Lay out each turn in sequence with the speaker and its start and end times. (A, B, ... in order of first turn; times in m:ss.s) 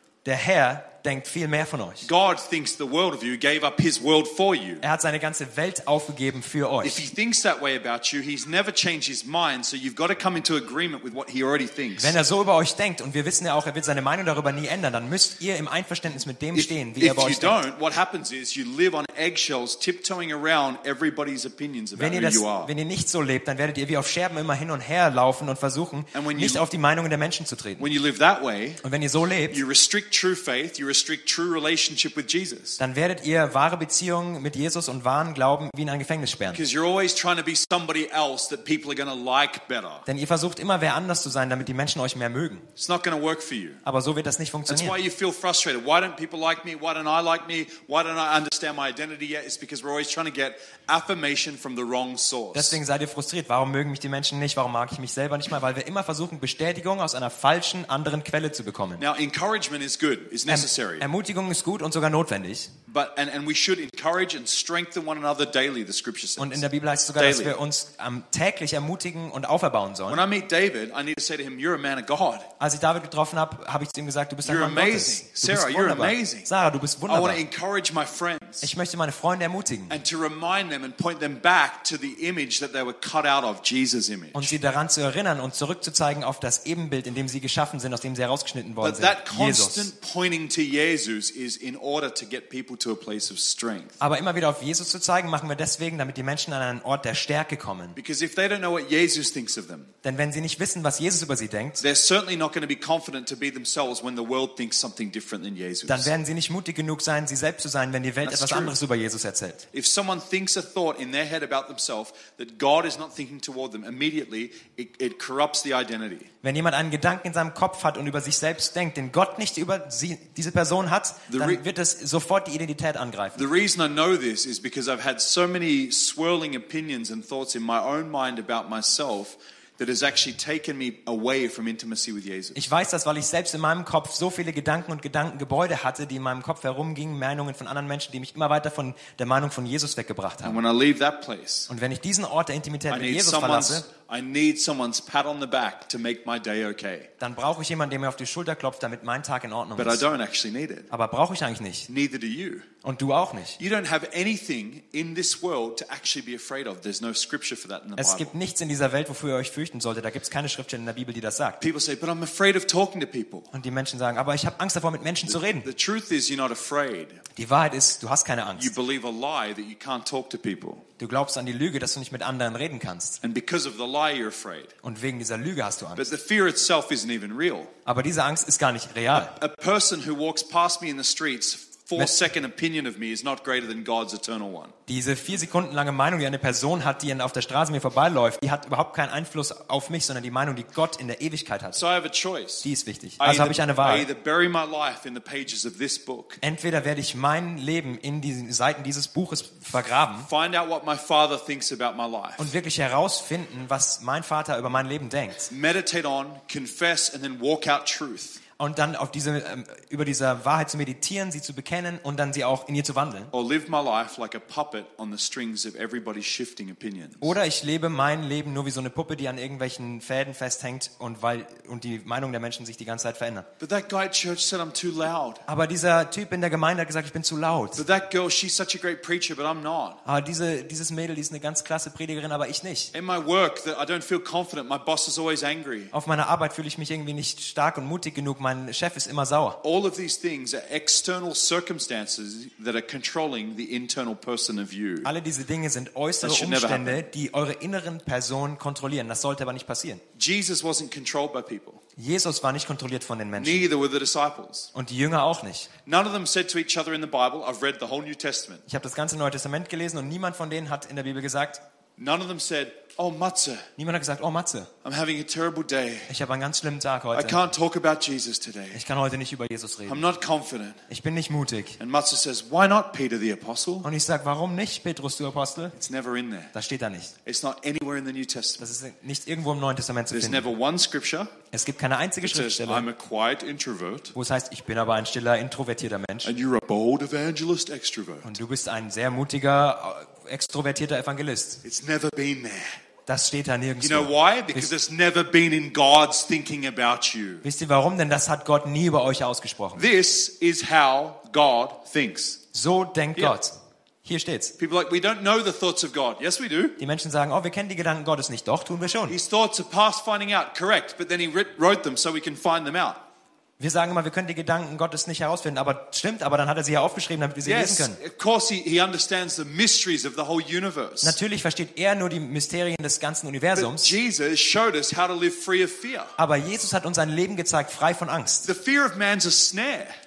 0:00.2-0:02.1 A
0:02.0-0:04.8 B
0:04.8-0:07.0 A
0:06.8-0:12.2 B
0:12.0-0:17.6 A
0:16.5-0:22.7 B
0:22.0-0:27.9 A
0:26.1-0:26.6 B
0:27.8-0:28.8 B
0:28.8-0:29.6 A
0:29.5-0:32.8 B
0:32.8-0:36.6 A
0:36.5-0:40.0 B
0:40.0-0:42.7 A
0:42.8-0:43.8 B
0:43.8-0:45.0 A
0:44.7-0:52.8 B
0:52.5-0:59.0 A
0:59.0-1:01.1 B
1:00.5-1:02.7 A
1:02.9-1:07.6 B
1:06.4-1:10.2 A
1:10.1-1:12.5 B
1:12.6-1:17.4 A
1:14.4-1:16.5 B
1:17.1-1:18.7 B
1:18.6-1:20.0 A
1:19.9-1:24.5 B
1:24.3-1:29.9 A
1:28.8-1:34.0 B
1:34.0-1:38.0 A
1:38.0-1:39.9 B
1:40.0-1:41.8 A
1:41.8-1:46.1 B
1:45.9-1:49.6 A
1:48.2-1:48.8 B
1:49.7-1:56.3 B
1:56.4-2:03.4 A
2:01.3-2:01.6 B
2:03.3-2:12.6 B
2:12.5-2:20.6 A
2:20.4-2:21.7 B
2:21.7-2:23.9 A
2:22.9-2:27.1 B
2:27.2-2:30.0 A
2:29.8-2:30.9 B
2:30.9-2:31.9 A
2:31.9-2:32.7 B
2:32.8-2:33.6 A
2:33.6-2:38.3 B
2:38.0-2:41.6 A
2:41.6-2:43.5 B
2:43.5-2:45.7 A
2:45.3-2:47.2 B
2:47.4-2:48.7 A
2:48.6-2:50.8 B
2:51.0-2:53.2 A
2:53.2-2:54.7 B
2:54.8-2:56.0 A
2:55.9-2:57.7 B
2:57.8-2:59.3 A
2:59.1-3:04.7 B
3:04.9-3:11.8 A
3:11.7-3:16.4 B
3:12.6-3:14.1 A
3:16.4-3:20.3 A
3:20.2-3:22.5 B
3:22.4-3:25.5 A
3:25.5-3:28.4 B
3:28.6-3:33.3 A
3:33.3-3:37.3 B
3:37.2-3:43.5 A
3:43.6-3:45.4 B
3:45.5-3:47.8 A
3:47.8-3:50.0 B
3:50.0-3:52.9 A
3:52.9-3:55.9 B
3:55.9-3:59.6 A
3:59.6-4:05.1 B
4:05.0-4:10.0 A
4:06.2-4:07.0 B
4:10.2-4:11.8 B
4:12.0-4:13.7 A
4:13.4-4:14.7 B
4:14.7-4:15.7 A
4:15.8-4:18.6 B
4:18.7-4:21.6 A
4:22.0-4:23.7 B
4:23.8-4:24.7 A
4:24.8-4:26.1 B
4:26.1-4:27.4 A
4:27.1-4:28.8 B
4:28.7-4:30.1 A
4:29.9-4:30.8 B
4:30.9-4:31.8 A
4:31.8-4:33.9 B
4:33.8-4:35.7 A
4:35.7-4:36.5 B
4:36.5-4:37.1 A
4:37.2-4:38.7 B
4:38.6-4:40.5 A
4:40.1-4:41.3 B
4:41.5-4:42.9 A
4:42.2-4:44.1 B
4:44.1-4:46.3 A
4:46.2-4:48.4 B
4:48.2-4:51.6 A
4:51.6-4:52.8 B
4:53.1-4:54.7 A
4:53.8-4:57.4 B
4:57.4-4:59.9 A
4:59.8-5:02.4 B
5:02.5-5:04.5 A
5:04.6-5:06.8 B
5:06.8-5:09.2 A
5:09.1-5:13.0 B
5:13.6-5:18.0 A
5:17.4-5:21.2 B
5:21.0-5:23.9 A
5:23.5-5:26.1 B
5:26.2-5:28.5 A
5:28.4-5:30.0 B